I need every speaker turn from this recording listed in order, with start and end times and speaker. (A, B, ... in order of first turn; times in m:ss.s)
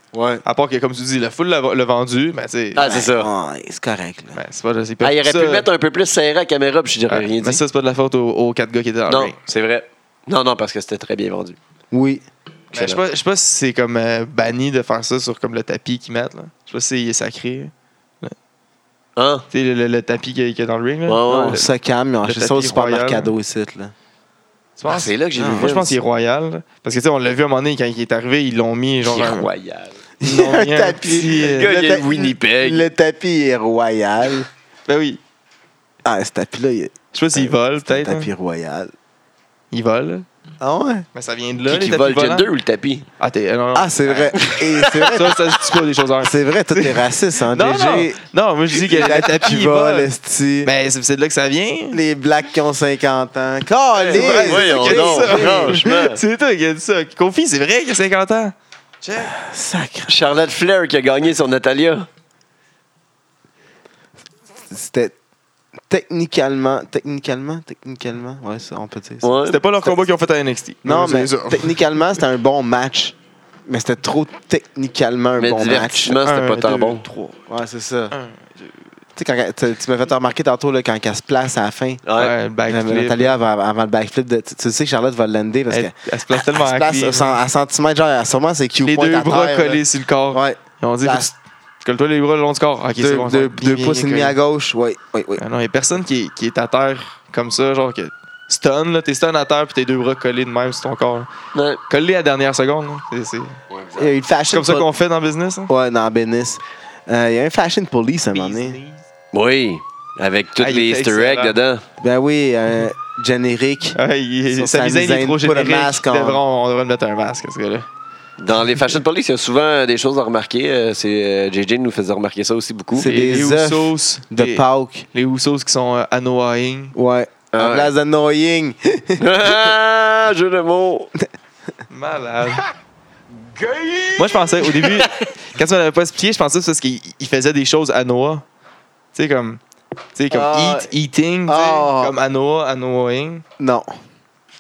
0:00.1-0:00.4 A
0:00.4-0:02.8 B
0:02.8-0:03.3 C
0:02.8-0:04.4 A
0:04.4-0:05.7 B
0:05.0-0:07.6 C
0:07.1-0:09.4 B
0:09.1-0:11.6 C
0:11.9-0:12.2 A
0:12.7-0:13.0 C
0:12.7-0:18.4 B
0:19.2-0:19.5 C
0:19.5-0:21.3 B
0:21.1-0:21.6 C
0:21.3-0:23.9 A
0:22.2-0:23.3 B
0:24.8-0:29.5 B
0:24.9-0:26.0 C
0:25.4-0:25.8 A
0:29.1-0:30.0 C
0:30.2-0:34.5 A
0:30.2-0:31.7 B
0:31.4-0:32.9 C
0:34.9-0:35.2 B
0:36.0-0:38.9 A
0:37.1-0:38.3 B
0:39.7-0:40.3 B
0:40.6-0:41.1 A
0:41.2-0:42.5 B
0:41.7-0:43.1 C
0:43.2-0:44.5 B
0:43.7-0:45.5 A
0:44.4-0:45.1 C
0:45.0-0:50.1 B
0:46.2-0:48.2 A
0:48.9-0:50.7 A
0:50.6-0:52.0 B
0:51.9-0:55.8 A
0:54.0-0:56.2 C
0:54.1-0:59.3 B
0:59.2-1:00.2 A
1:00.1-1:02.1 C
1:04.7-1:05.2 A
1:05.9-1:09.3 A
1:09.2-1:09.6 C
1:09.5-1:11.8 B
1:10.8-1:16.2 A
1:15.4-1:17.0 C
1:16.2-1:17.4 B
1:17.5-1:18.2 A
1:18.1-1:18.7 B
1:19.2-1:22.0 A
1:22.1-1:22.3 C
1:22.2-1:23.3 B
1:22.7-1:31.3 A
1:25.7-1:27.4 B
1:28.8-1:34.4 B
1:33.0-1:35.4 A
1:35.4-1:41.3 B
1:41.5-1:41.8 C
1:41.9-1:43.6 B
1:43.7-1:44.1 C
1:44.0-1:44.9 A
1:44.5-1:45.7 B
1:45.7-1:48.8 A
1:48.3-1:49.0 B
1:49.3-1:51.8 C
1:50.6-1:51.6 B
1:52.0-1:54.0 A
1:54.0-1:57.9 B
1:54.5-1:56.4 A
1:58.4-2:03.1 C
2:02.9-2:05.1 A
2:03.0-2:06.9 B
2:07.0-2:09.7 A
2:07.5-2:07.9 C
2:09.2-2:11.1 C
2:11.9-2:12.6 B
2:13.6-2:14.1 C
2:14.2-2:18.4 B
2:19.1-2:19.6 B
2:20.2-2:23.4 B
2:20.3-2:20.9 A
2:21.5-2:22.2 A
2:23.6-2:23.9 A